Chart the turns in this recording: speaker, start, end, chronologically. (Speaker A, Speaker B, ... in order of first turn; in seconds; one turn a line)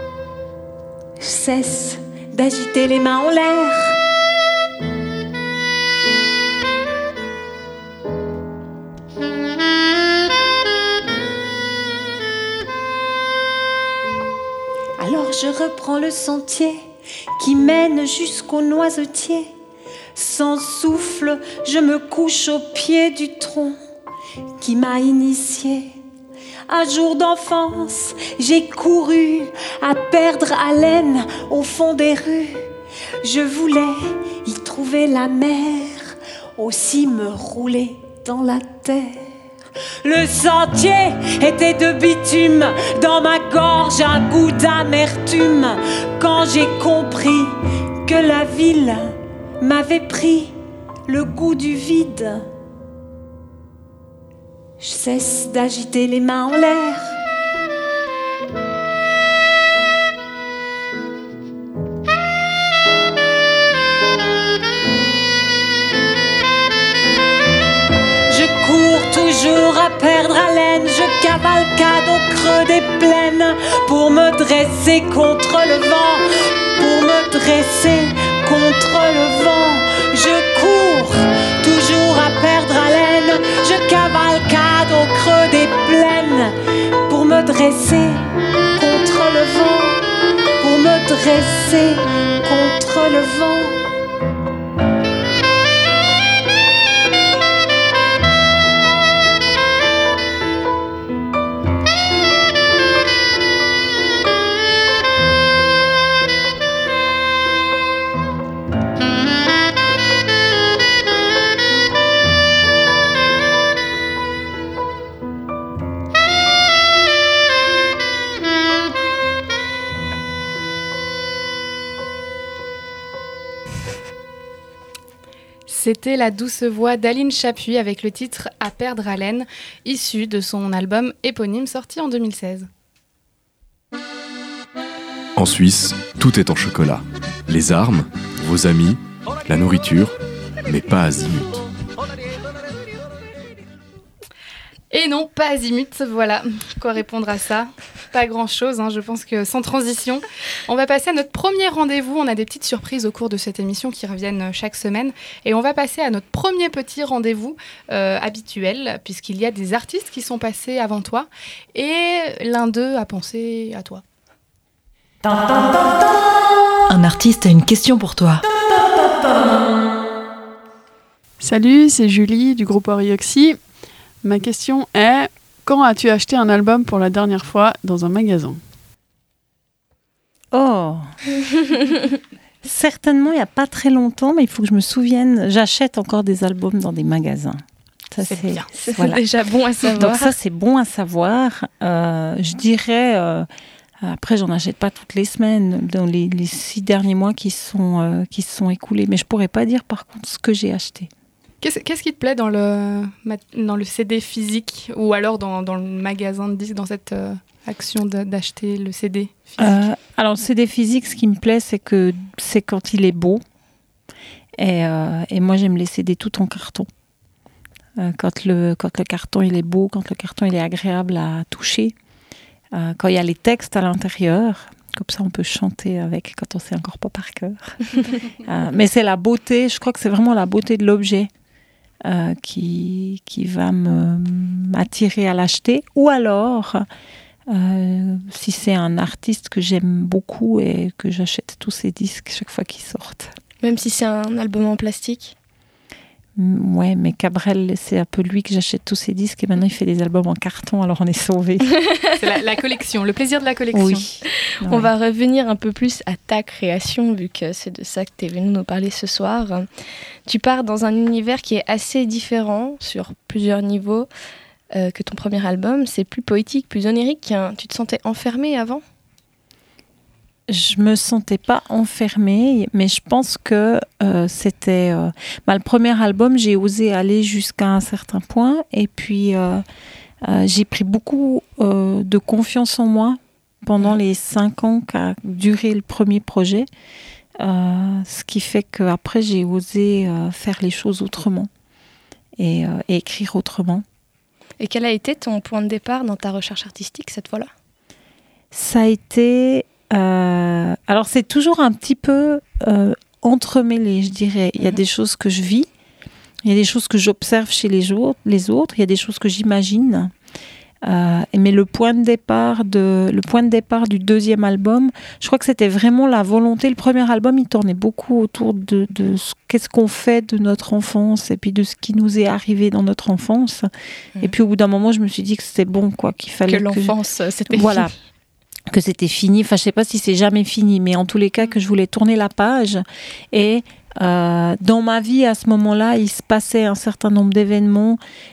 Speaker A: 1.2-4.0
Speaker A: 15.0-16.8
Speaker A: 17.4-19.5
Speaker A: 20.1-23.8
Speaker A: 24.6-25.9
Speaker A: 26.7-32.7
Speaker A: 33.2-39.2
Speaker A: 40.0-50.5
Speaker A: 51.1-52.5
Speaker A: 54.8-57.1
Speaker A: 68.3-86.5
Speaker A: 87.1-90.0
Speaker A: 90.6-93.8
Speaker B: 125.7-132.7
Speaker C: 135.4-140.1
Speaker C: 140.7-141.6
Speaker B: 144.9-164.0
Speaker D: 165.2-165.9
Speaker D: 166.9-168.4
Speaker E: 171.4-173.6
Speaker E: 174.2-178.6
Speaker F: 180.5-181.1
Speaker F: 182.6-189.2
Speaker B: 188.2-188.7
Speaker G: 188.7-190.3
Speaker F: 189.8-193.5
Speaker F: 194.0-201.1
Speaker B: 201.6-209.8
Speaker F: 209.6-213.4
Speaker F: 214.6-216.9
Speaker F: 218.0-221.9
Speaker F: 222.7-231.3
Speaker F: 232.0-236.9
Speaker F: 237.5-243.3
Speaker G: 243.6-245.3
Speaker F: 246.3-251.7
Speaker B: 252.1-254.1
Speaker F: 253.7-254.9
Speaker G: 254.4-259.7
Speaker G: 260.2-264.1
Speaker G: 264.7-268.8
Speaker F: 270.5-279.6
Speaker F: 280.2-286.7
Speaker F: 287.4-291.5
Speaker F: 292.4-293.8
Speaker G: 294.6-297.5
Speaker F: 298.5-305.7
Speaker F: 306.4-310.1
Speaker F: 310.8-323.7
Speaker F: 324.2-326.9
Speaker G: 326.5-327.9
Speaker F: 327.5-327.9
Speaker F: 328.7-338.0